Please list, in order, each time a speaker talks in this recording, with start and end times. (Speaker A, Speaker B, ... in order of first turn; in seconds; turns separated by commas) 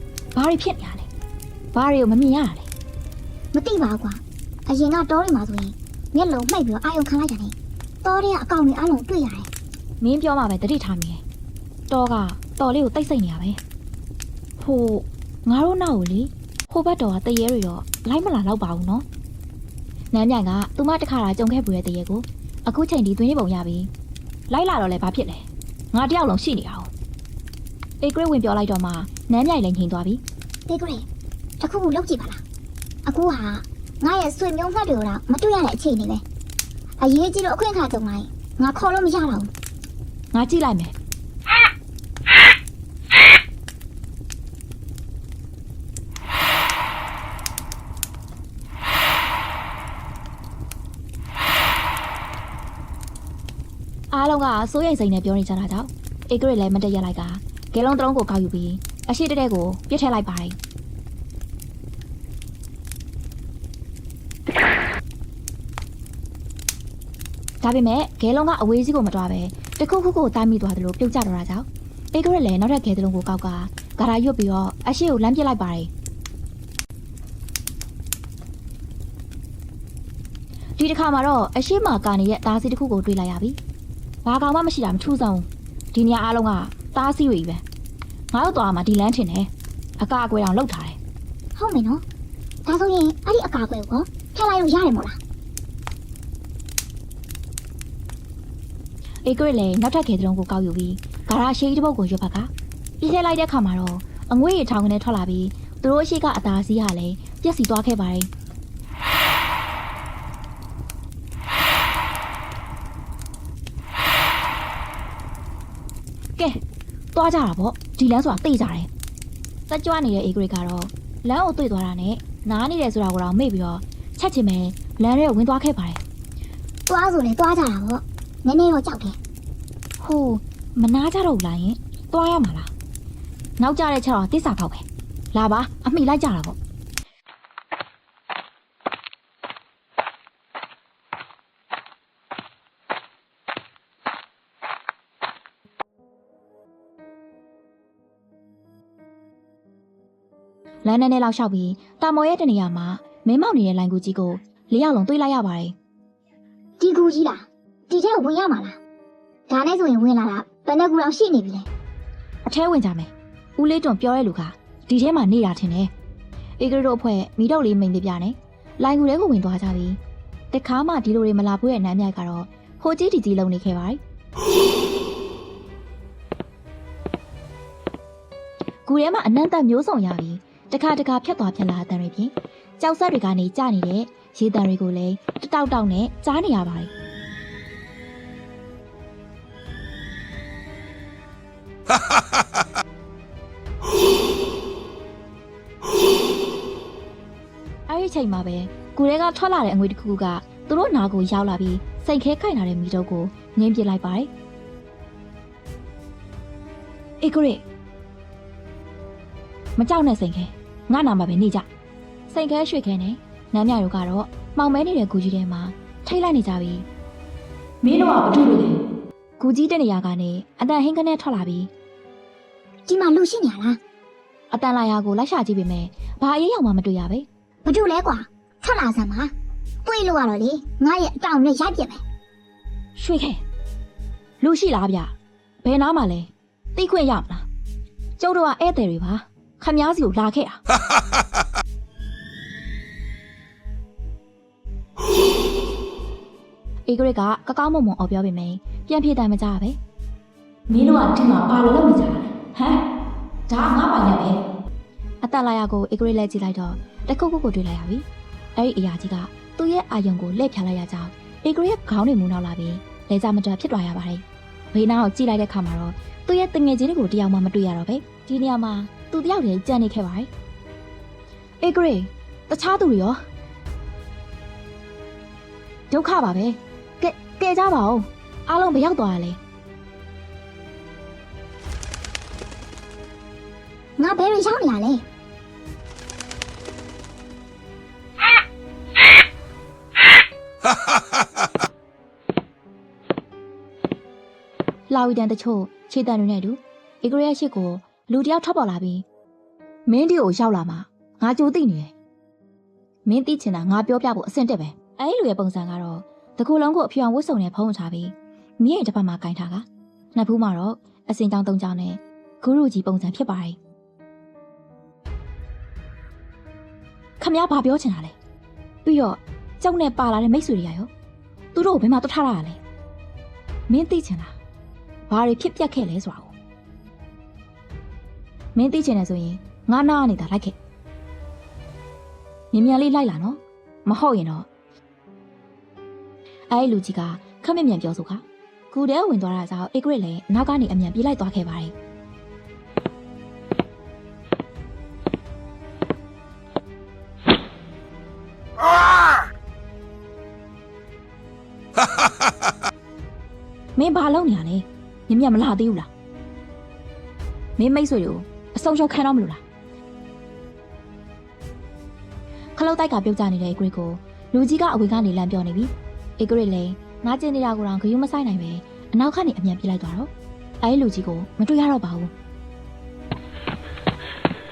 Speaker A: 0.3-1.1, Speaker A: 1.7-2.7, Speaker B: 3.5-9.5, Speaker A: 10.0-11.2, Speaker A: 11.9-13.6, Speaker A: 14.6-19.1, Speaker A: 20.1-23.9, Speaker A: 24.5-26.9, Speaker A: 28.0-30.2, Speaker B: 30.7-31.1, Speaker B: 31.6-32.4, Speaker B: 33.0-36.2, Speaker B: 37.0-39.5, Speaker A: 40.3-40.9, Speaker A: 54.1-60.6, Speaker A: 67.6-75.9, Speaker A: 80.8-83.6, Speaker A: 84.2-87.6, Speaker A: 88.3-91.0, Speaker B: 91.5-92.0, Speaker B: 92.6-95.2, Speaker A: 99.2-108.3, Speaker A: 117.1-118.9, Speaker A: 119.7-126.0, Speaker B: 126.9-129.2, Speaker A: 130.0-132.7, Speaker A: 133.6-136.6, Speaker A: 150.8-155.7, Speaker B: 156.8-158.8, Speaker B: 159.5-161.7, Speaker A: 162.4-165.9, Speaker A: 166.6-170.0, Speaker A: 170.5-174.0, Speaker A: 178.8-186.9, Speaker A: 197.9-204.3, Speaker A: 207.2-207.6, Speaker A: 209.8-211.7, Speaker A: 212.3-216.8, Speaker A: 217.8-218.8, Speaker A: 219.4-221.7, Speaker B: 222.9-223.8, Speaker A: 224.5-227.3, Speaker B: 227.6-229.3, Speaker B: 229.8-232.0, Speaker A: 232.9-233.4, Speaker A: 234.4-237.4, Speaker A: 238.2-240.6, Speaker A: 246.9-249.8, Speaker A: 250.7-252.8, Speaker A: 253.5-254.4, Speaker A: 255.2-270.3, Speaker A: 271.6-273.2, Speaker A: 275.9-279.4, Speaker B: 284.0-285.0, Speaker A: 294.9-299.1, Speaker A: 299.9-301.9, Speaker A: 303.1-313.6, Speaker A: 317.2-318.1, Speaker A: 318.8-320.9, Speaker A: 321.5-322.6, Speaker A: 323.7-324.4, Speaker A: 325.1-326.3, Speaker A: 328.5-330.6, Speaker A: 332.5-334.5, Speaker A: 336.5-341.7, Speaker A: 353.8-355.9, Speaker A: 357.6-359.4, Speaker A: 362.5-372.1